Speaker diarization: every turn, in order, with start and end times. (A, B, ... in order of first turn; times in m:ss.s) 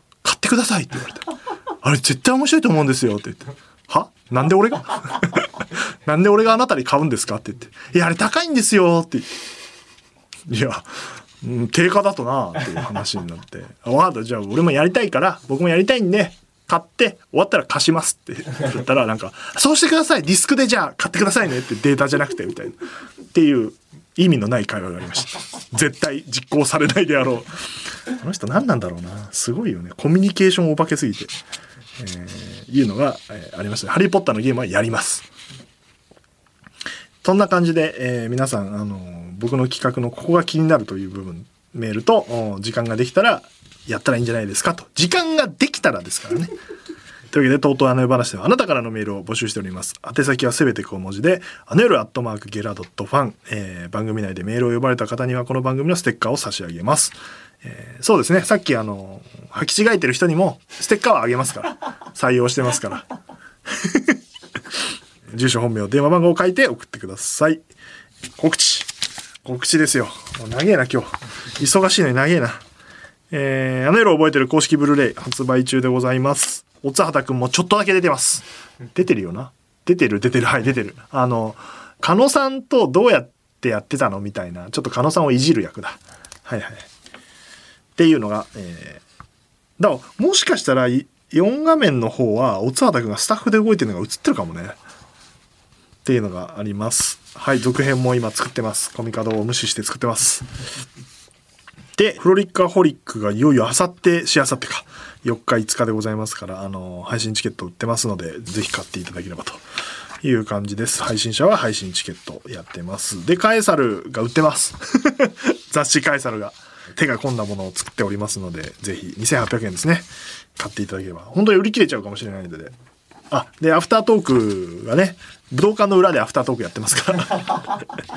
0:00.2-0:09.3 A
0:10.5-0:22.8 A
0:23.3-0:27.5 A
0:28.1-0:31.3 A
0:32.0-0:35.3 A
0:37.2-0:46.5 A
0:47.3-1:03.1 A
1:03.7-1:04.2 A
1:05.3-1:07.6 A
1:08.4-1:08.9 A
1:09.4-1:12.6 A
1:13.3-1:26.9 A
1:28.0-1:29.0 A
1:29.8-1:34.8 A
1:36.0-1:40.5 A
1:42.0-1:49.6 A
1:50.2-2:02.7 A
2:03.3-2:07.9 A